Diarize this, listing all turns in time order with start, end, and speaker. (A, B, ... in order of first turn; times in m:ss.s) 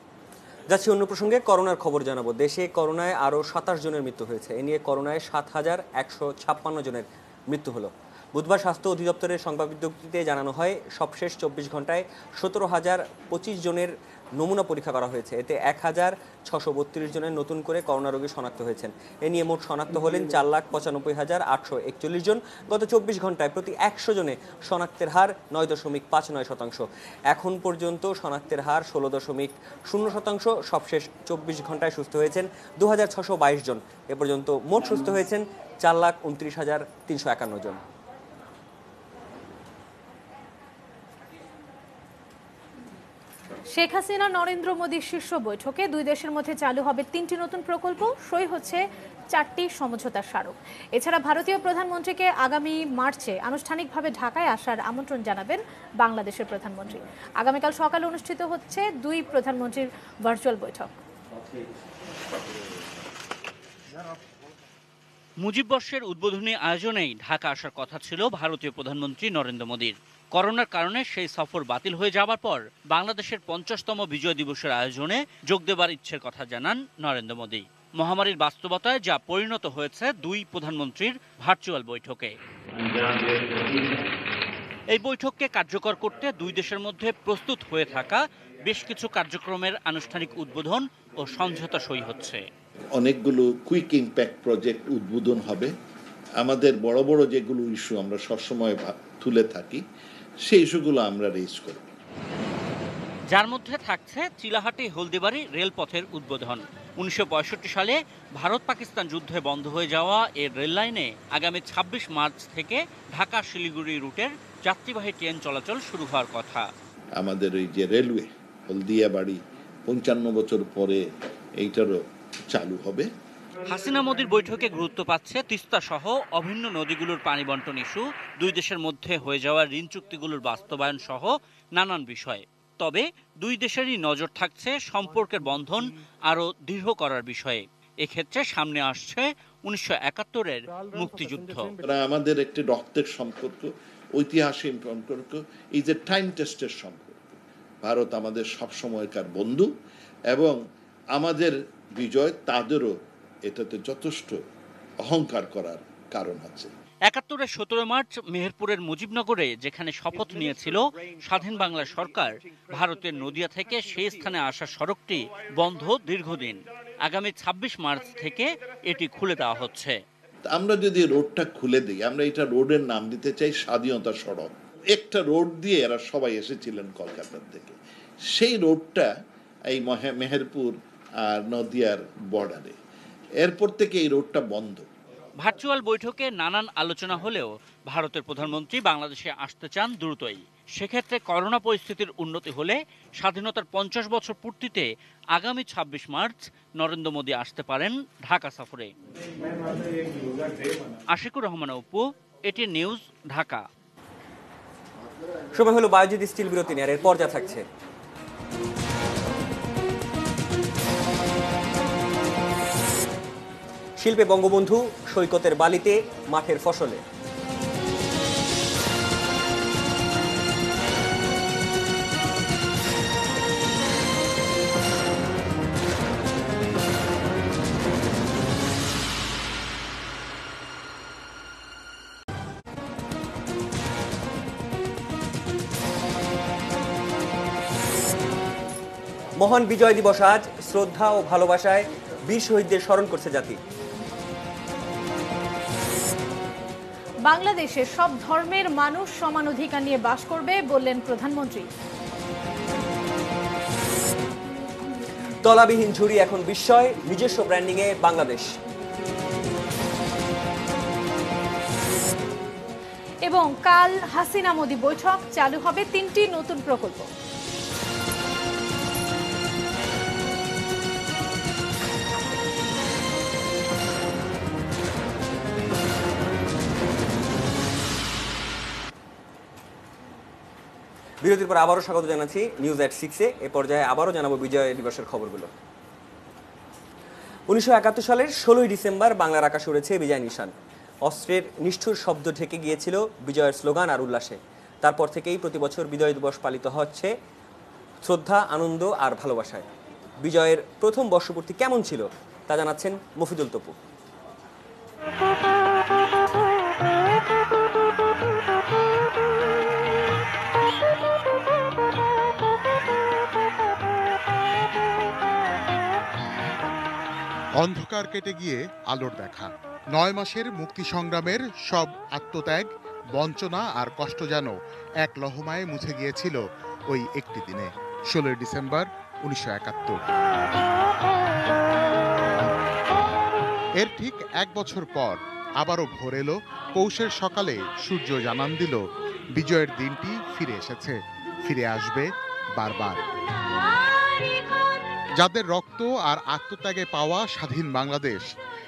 0:00.7-0:37.8 A
0:43.7-0:48.8 B
0:49.3-1:00.9 B
1:05.4-1:22.4 C
1:24.9-1:32.4 C
1:33.0-1:35.7 D
1:36.4-1:39.8 D
1:40.4-1:41.8 D
1:43.3-1:56.6 C
1:57.2-2:01.0 D
2:01.6-2:03.1 D
2:03.7-2:21.7 C
2:21.8-2:29.7 D
2:30.3-2:30.6 D
2:31.1-2:32.9 D
2:33.4-2:34.4 D
2:35.0-2:36.7 D
2:37.1-2:50.0 C
2:50.5-2:57.8 D
2:58.3-2:59.1 D
2:59.7-3:02.8 D
3:03.4-3:04.9 D
3:05.4-3:18.9 C
3:21.1-3:23.6 C
3:25.5-3:27.6 A
3:34.0-3:37.0 A
3:59.4-4:03.6 A
4:07.2-4:11.7 B
4:15.4-4:18.4 A
4:23.2-4:27.1 B
4:41.2-4:45.5 A
4:47.5-4:50.5 A
4:51.0-4:57.1 A
4:58.0-4:59.6 A
5:00.2-5:03.8 A
5:17.6-5:30.1 E
5:33.8-5:43.0 E
5:45.2-5:48.2 E